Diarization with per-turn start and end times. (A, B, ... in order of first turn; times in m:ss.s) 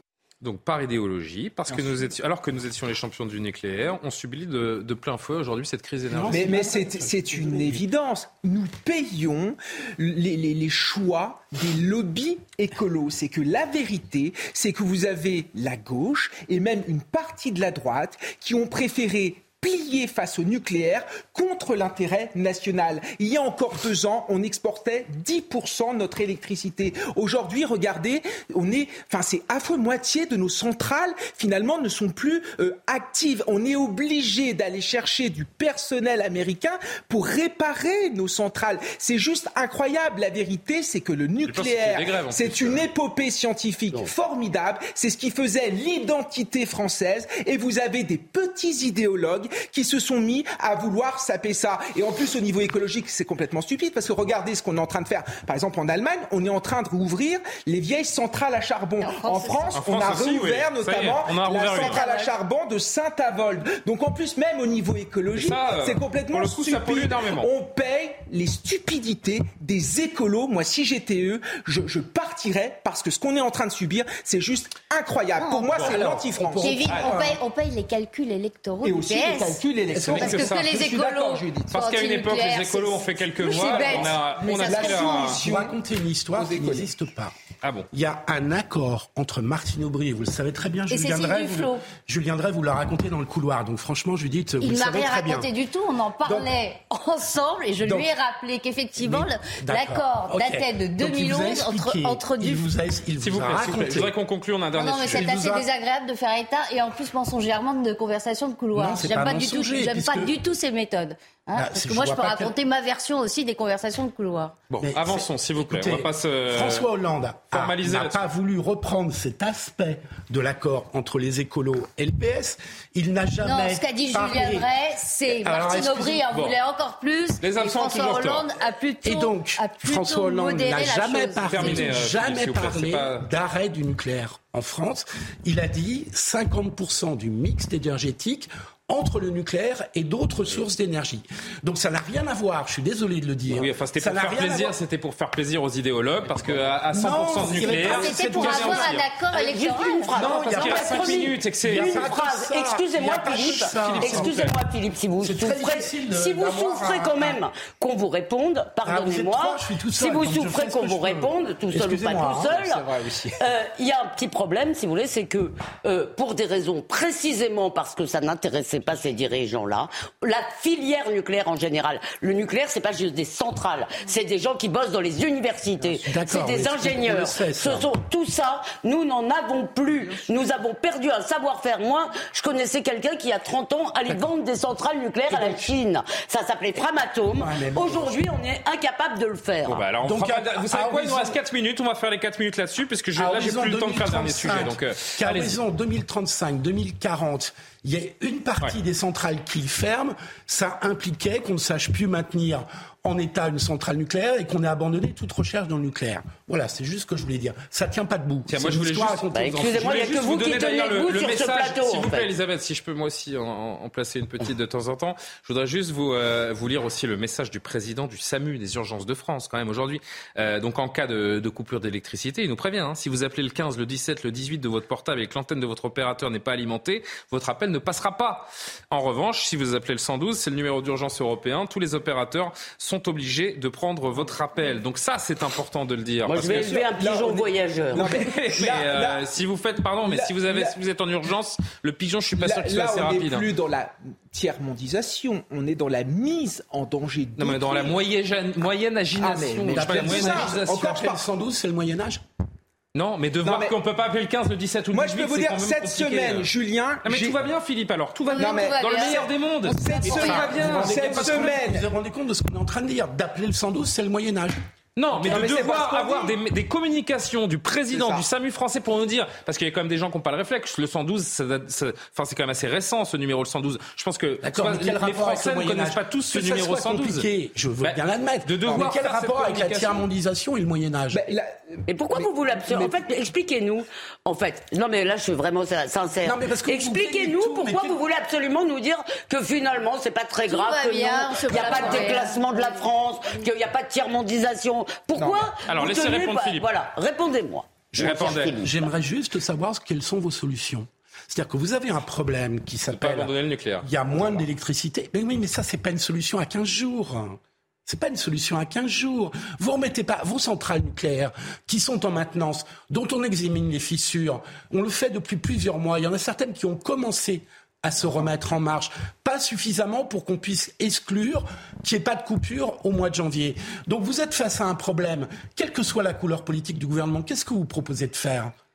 0:00.4-0:06.5 A
0:06.1-0:07.8 B
0:06.3-1:17.4 C
0:41.4-0:42.8 A
0:59.0-0:59.7 D
0:59.7-1:02.0 A
1:01.7-1:02.3 D
1:05.3-1:07.5 A
1:15.4-1:15.8 D
1:15.7-1:16.1 A
1:15.8-1:17.3 B
1:16.6-1:19.6 D
1:18.8-1:21.8 C
1:19.9-1:20.2 B
1:20.0-1:25.4 A
1:20.1-1:25.3 D
1:23.4-1:25.8 C
1:25.4-1:27.3 B
1:26.3-1:26.9 C
1:27.6-1:27.9 A
1:27.9-1:35.5 B
1:30.9-1:31.8 D
1:34.6-1:42.7 D
1:37.8-1:38.1 B
1:39.0-1:44.1 B
1:43.2-1:45.3 A
1:44.7-1:54.5 D
1:45.1-1:45.7 B
1:48.7-1:50.3 B
1:51.5-1:52.5 B
1:54.7-1:56.9 A
1:54.8-2:04.7 B
1:57.5-1:58.2 A
2:03.4-2:11.8 D
2:05.3-2:06.3 B
2:07.4-2:08.4 A
2:09.0-2:24.8 B
2:11.5-2:13.2 A
2:23.5-2:29.0 A
2:26.2-2:29.0 B
2:27.6-2:30.1 D
2:29.3-2:42.8 E
2:30.1-2:34.5 B
2:30.1-2:32.0 A
2:33.7-2:34.6 A
2:35.2-2:37.4 B
2:38.8-2:43.1 B
2:42.9-2:43.3 C
2:43.4-3:09.8 E
2:56.0-2:57.9 B
3:05.3-3:05.8 B
3:07.3-3:08.2 B
3:09.6-3:15.6 A
3:10.0-3:11.4 B
3:13.2-3:30.3 B
3:28.5-3:56.8 A
3:29.3-3:32.3 E
3:56.2-3:58.1 E
3:56.3-3:59.3 C
3:57.9-4:03.5 A
4:00.0-4:00.8 C
4:02.3-4:08.0 C
4:07.4-4:11.0 A
4:09.2-4:11.2 C
4:09.5-4:12.2 B
4:12.9-4:16.5 A
4:13.4-4:13.8 C
4:14.9-4:17.4 C
4:17.0-4:21.6 A
4:18.3-4:20.5 D
4:18.3-4:21.9 C
4:20.1-4:24.6 B
4:25.0-4:37.2 A
4:25.1-4:26.4 C
4:27.9-4:28.2 C
4:34.4-4:41.3 B
4:37.8-4:40.0 A
4:41.1-4:43.1 C
4:41.9-4:58.8 E
4:46.2-4:48.0 B
4:50.4-4:52.9 D
4:51.5-4:52.0 C
4:55.2-4:55.6 C
4:55.6-4:56.7 A
4:57.9-5:28.5 B
4:58.0-4:58.6 A
5:02.9-5:03.9 A